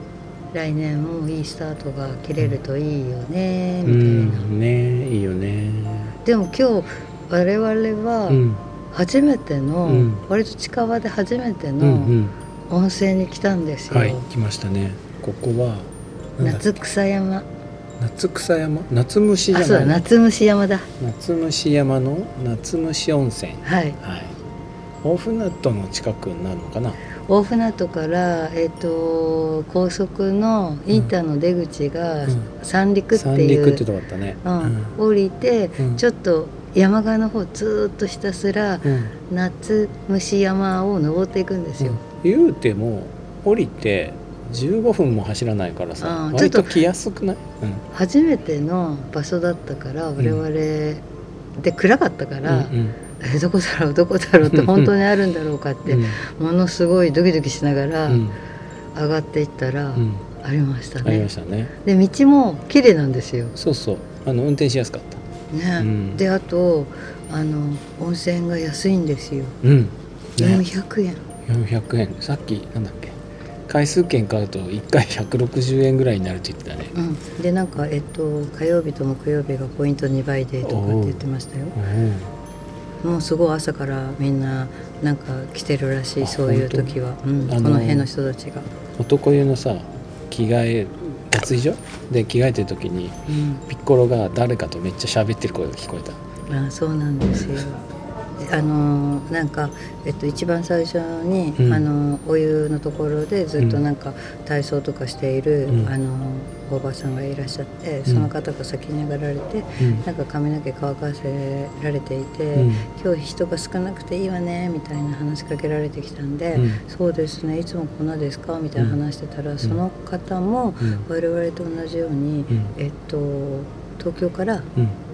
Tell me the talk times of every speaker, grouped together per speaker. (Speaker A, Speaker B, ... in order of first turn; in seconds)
Speaker A: 0.5-4.5, 6.2-12.2, 12.7-14.2, 16.4-17.5, 19.5-20.9, 23.6-24.0, 27.2-33.8, 34.4-42.0, 46.0-46.8, 47.9-51.0, 51.6-58.3, 58.9-61.3, 61.8-63.5, 65.5-69.6, 70.4-71.2, 76.9-81.8, 83.0-88.7, 93.3-93.6, 96.5-97.8, 98.4-124.7
Speaker B: 3.8-6.2, 8.3-8.6, 9.8-10.2, 11.8-12.3, 13.9-16.6, 18.0-20.0, 21.0-24.4, 25.0-27.0, 33.1-34.9, 35.8-36.0, 38.8-39.1, 41.8-47.8, 52.5-53.0, 54.4-54.9, 55.9-56.2, 58.1-58.4, 60.0-60.2, 61.0-61.7, 63.5-65.2, 65.8-66.2, 69.6-70.6, 71.5-73.2, 73.7-76.9, 80.6-81.2, 81.7-82.3, 86.2-88.1, 89.0-96.2, 101.6-101.8, 109.8-110.0, 112.5-112.9, 116.5-116.8